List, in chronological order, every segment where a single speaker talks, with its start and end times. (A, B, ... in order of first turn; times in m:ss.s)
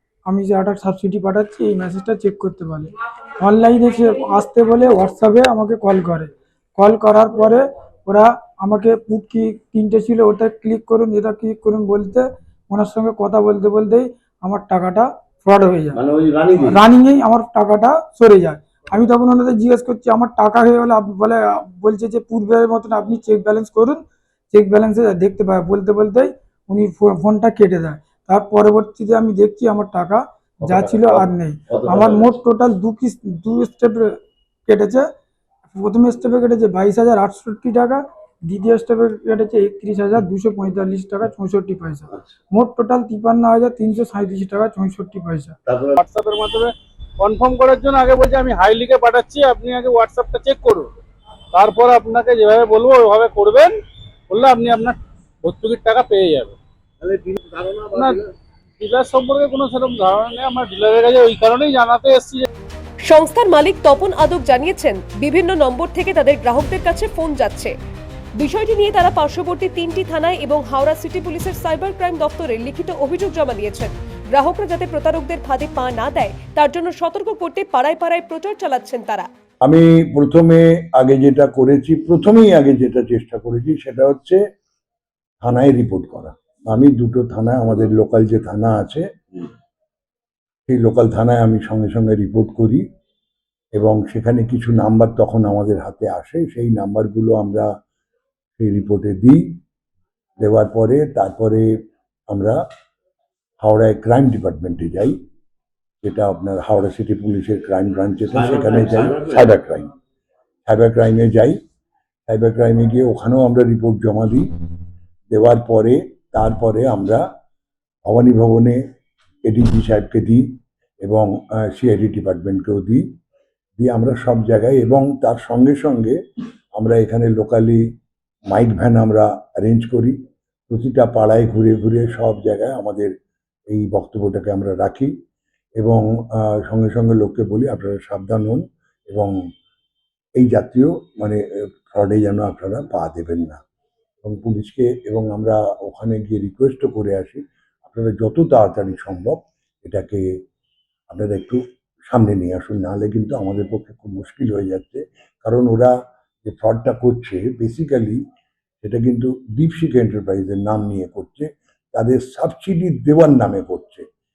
0:00.2-0:16.0 A
0:15.9-0:16.8 B
0:16.6-0:35.1 A
0:30.6-0:32.4 B
0:35.7-0:45.6 A
0:45.7-0:46.0 B
0:46.0-0:50.9 C
0:51.5-0:53.7 C
0:54.3-0:56.6 C
0:57.0-0:58.2 B
0:57.9-0:58.2 C
0:58.8-1:02.5 C
1:03.1-1:07.7 D
1:08.4-1:19.3 D
1:19.6-1:24.4 E
1:25.4-1:29.1 E
1:30.7-1:32.8 E
1:33.8-1:37.7 E
1:38.6-1:39.4 E
1:40.4-1:41.7 E
1:42.3-1:42.6 E
1:43.6-1:45.2 E
1:46.0-1:49.9 E
1:48.3-1:49.5 B
1:50.7-1:51.6 E
1:52.3-1:54.5 E
1:55.3-1:57.2 E
1:58.1-1:58.8 E
1:59.5-2:00.4 E
2:01.0-2:03.0 E
2:03.8-2:06.2 E
2:06.8-2:07.8 E
2:08.5-2:10.2 E
2:10.7-2:13.1 E
2:13.7-2:15.1 E
2:15.8-2:19.3 E
2:20.4-2:23.6 E
2:24.2-2:30.2 E
2:31.1-2:35.9 E
2:36.4-2:38.2 E
2:38.8-2:44.0 E